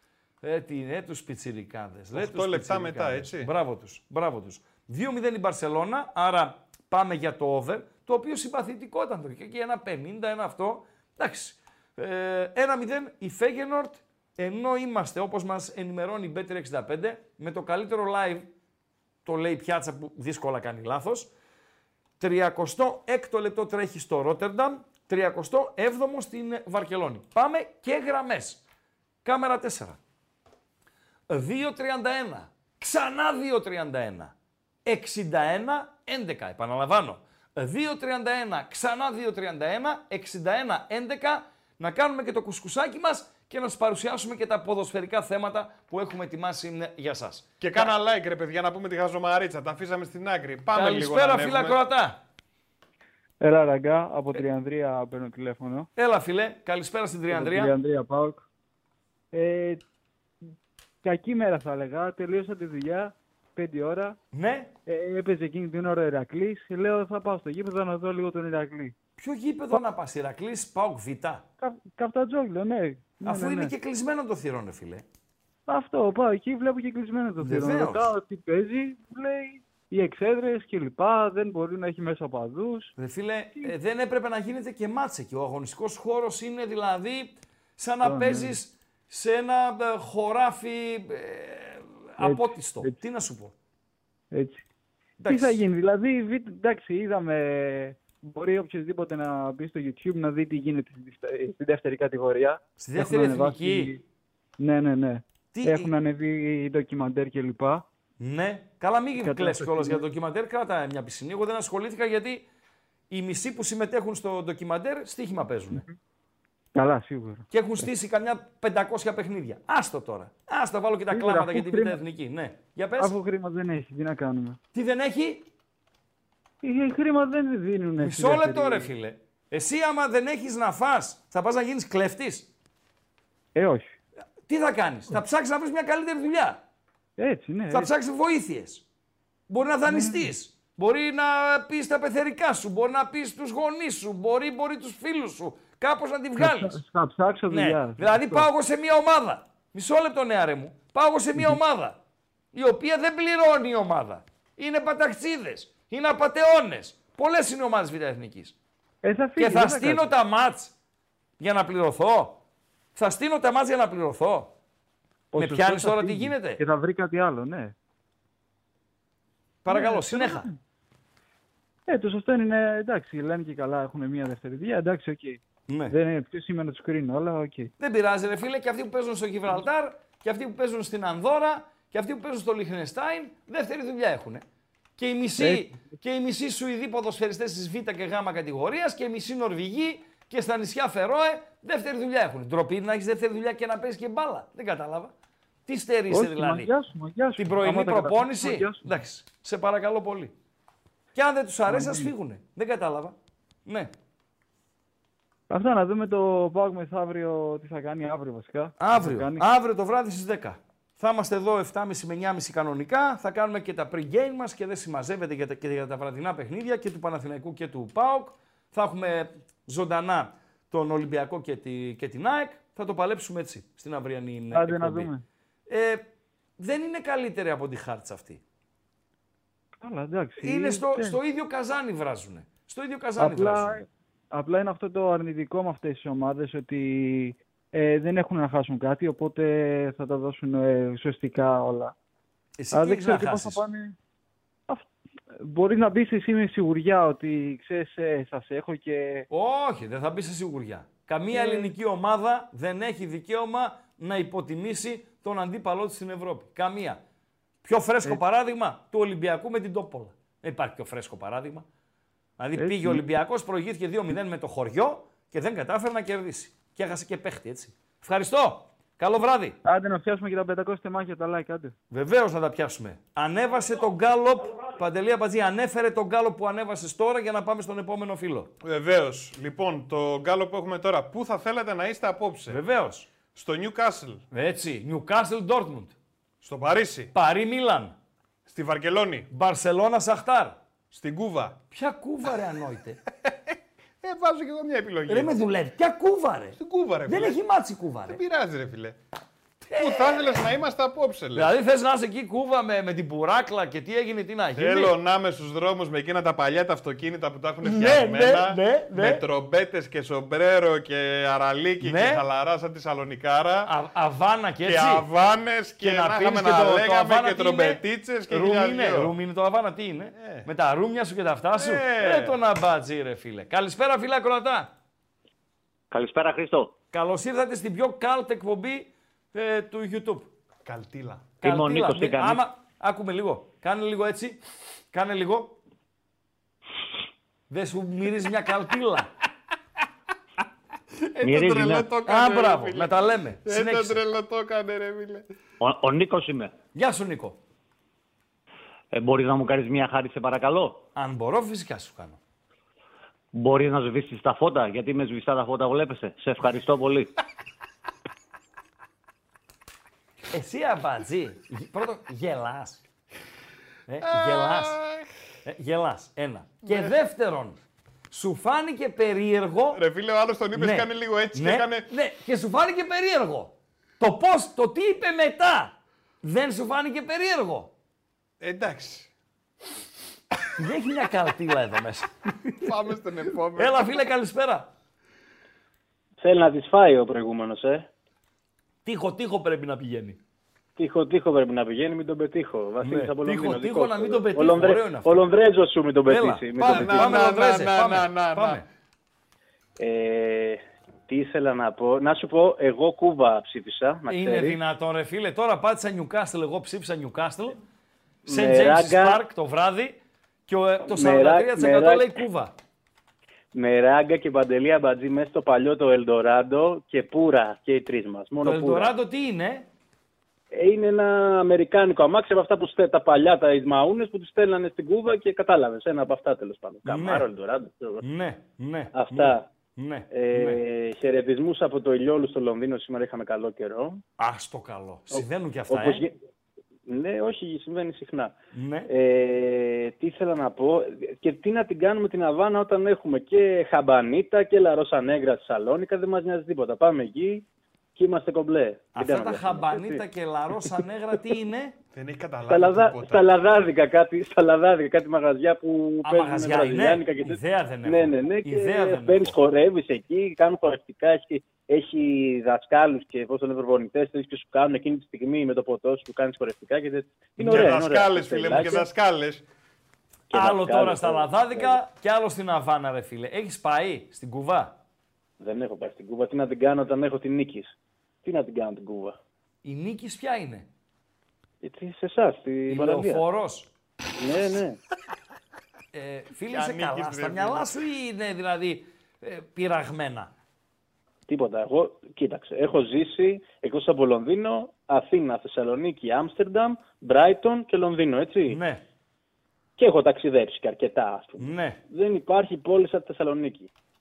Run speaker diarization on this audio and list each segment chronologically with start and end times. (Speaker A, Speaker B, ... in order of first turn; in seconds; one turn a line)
Speaker A: 0.4-18.5
Speaker B: 2.1-3.5
Speaker A: 19.2-21.3
Speaker A: 22.2-28.6
Speaker A: 29.2-30.0
Speaker A: 31.3-34.3
Speaker A: 34.9-47.9
Speaker B: 47.6-51.8
Speaker A: 50.7-52.2
Speaker C: 53.4-55.9
Speaker A: 56.0-57.8
Speaker C: 57.3-58.5
Speaker C: 59.3-59.8
Speaker C: 61.0-64.2
Speaker A: 64.3-64.7
Speaker C: 64.9-69.0
Speaker A: 69.2-71.4
Speaker C: 71.6-73.7
Speaker A: 73.2-75.0
Speaker C: 75.7-83.0
Speaker A: 77.4-78.1
Speaker A: 83.0-93.5
Speaker C: 88.0-88.6
Speaker C: 92.2-93.0
Speaker C: 94.3-94.6
Speaker A: 95.2-95.6
Speaker C: 95.3-104.0
Speaker A: 102.8-103.9
Speaker C: 104.6-107.8
Speaker A: 105.5-105.9
Speaker A: 108.2-112.5
Speaker C: 109.2-110.0
Speaker A: 113.1-115.8
Speaker C: 116.7-117.9
Speaker A: 117.5-123.2
Speaker C: 121.1-122.0
Speaker C: 123.0-124.6
Speaker A: 124.7-125.5
Speaker C: 126.6-128.9
Speaker A: 128.0-132.5
Speaker C: 133.6-133.9
Speaker A: 134.5-136.6
Speaker C: 137.2-137.9
Speaker A: 137.7-138.8
Speaker A: 139.5-146.8
Speaker C: 139.9-140.3
Speaker C: 146.4-148.5
Speaker A: 147.5-152.0
Speaker A: 152.5-158.6
Speaker C: 159.0-160.1
Speaker A: 159.4-160.7
Speaker A: 161.4-162.4
Speaker A: 162.9-164.5
Speaker C: 165.3-167.7
Speaker A: 165.3-166.6
Speaker A: 169.7-170.5
Speaker C: 169.7-170.6
Speaker C: 171.9-177.7
Speaker A: 175.7-175.9
Speaker A: 177.8-184.4
Speaker A: 185.0-195.1
Speaker C: 185.4-185.8
Speaker A: 195.7-196.7
Speaker C: 196.1-198.9
Speaker A: 197.4-200.3
Speaker A: 201.2-203.2
Speaker C: 201.7-202.1
Speaker A: 203.7-203.9
Speaker C: 205.5-209.5
Speaker A: 208.8-225.1
Speaker C: 224.5-225.2
Speaker A: 225.7-226.0
Speaker A: 226.6-228.4
Speaker C: 229.8-231.2
Speaker A: 230.4-233.8
Speaker C: 233.2-241.9
Speaker A: 242.6-243.6
Speaker C: 242.7-243.9
Speaker C: 245.4-249.3
Speaker A: 249.3-257.0
Speaker C: 251.3-251.7
Speaker A: 257.6-261.6
Speaker A: 262.4-269.6
Speaker C: 262.6-263.0
Speaker C: 269.6-271.8
Speaker A: 271.9-278.5
Speaker B: 278.6-282.6
Speaker A: 282.5-283.1
Speaker B: 283.4-284.2
Speaker A: 284.3-285.9
Speaker B: 286.4-287.1
Speaker A: 287.1-287.9
Speaker B: 288.5-289.3
Speaker A: 289.3-290.6
Speaker B: 290.9-291.6
Speaker A: 291.7-293.0
Speaker B: 293.2-295.4
Speaker A: 295.1-298.2
Speaker B: 296.6-297.4
Speaker B: 298.1-299.0
Speaker A: 299.6-300.4
Speaker B: 299.8-301.5
Speaker A: 301.4-304.9
Speaker B: 304.6-313.7
Speaker A: 307.6-309.2
Speaker A: 311.8-312.2
Speaker A: 313.7-315.1
Speaker B: 314.6-319.1
Speaker A: 315.8-324.7
Speaker B: 320.2-320.5
Speaker B: 321.6-322.4
Speaker D: 325.9-326.7
Speaker A: 326.9-330.3
Speaker B: 330.6-331.4
Speaker A: 331.4-334.4
Speaker D: 331.4-332.4
Speaker A: 334.9-335.6
Speaker A: 337.5-339.1
Speaker B: 341.1-345.2
Speaker D: 341.2-341.9
Speaker A: 342.1-344.0
Speaker D: 345.6-346.5
Speaker A: 346.7-347.4
Speaker D: 348.9-350.8
Speaker A: 351.0-352.2
Speaker D: 353.3-357.1
Speaker A: 360.3-362.8
Speaker A: 363.9-364.8
Speaker B: 364.0-365.1
Speaker A: 365.4-367.6
Speaker B: 366.6-366.9
Speaker A: 368.1-369.8
Speaker B: 369.7-371.9
Speaker A: 370.5-377.7
Speaker B: 378.4-379.1
Speaker A: 380.6-382.6
Speaker B: 382.6-384.0
Speaker A: 383.6-384.7
Speaker E: 386.2-387.9
Speaker A: 388.9-390.2
Speaker E: 390.8-397.2
Speaker A: 392.8-395.2
Speaker A: 396.1-398.6
Speaker B: 396.6-398.6
Speaker E: 399.8-404.6
Speaker A: 404.1-407.6
Speaker E: 408.3-409.2
Speaker A: 408.3-410.0
Speaker A: 410.5-412.5
Speaker E: 410.9-412.1
Speaker E: 413.5-418.9
Speaker A: 418.4-419.6
Speaker E: 420.5-428.0
Speaker A: 426.9-427.3
Speaker A: 428.0-430.6
Speaker E: 428.9-429.5
Speaker E: 430.1-434.0
Speaker A: 434.2-436.0
Speaker E: 435.1-436.1
Speaker E: 436.9-438.3
Speaker A: 438.5-438.9
Speaker E: 438.9-447.4
Speaker E: 448.0-450.0
Speaker A: 448.9-451.8
Speaker B: 451.9-453.3
Speaker E: 452.5-468.9
Speaker A: 456.0-459.4
Speaker B: 467.4-469.4
Speaker E: 470.3-471.8
Speaker A: 470.3-474.8
Speaker E: 475.4-479.2
Speaker A: 479.6-480.7
Speaker E: 481.6-483.2
Speaker A: 482.7-483.7
Speaker E: 484.2-484.8
Speaker A: 485.9-490.3
Speaker B: 486.5-487.7
Speaker E: 491.3-498.6
Speaker A: 498.5-498.8
Speaker E: 499.8-503.7
Speaker A: 501.4-501.8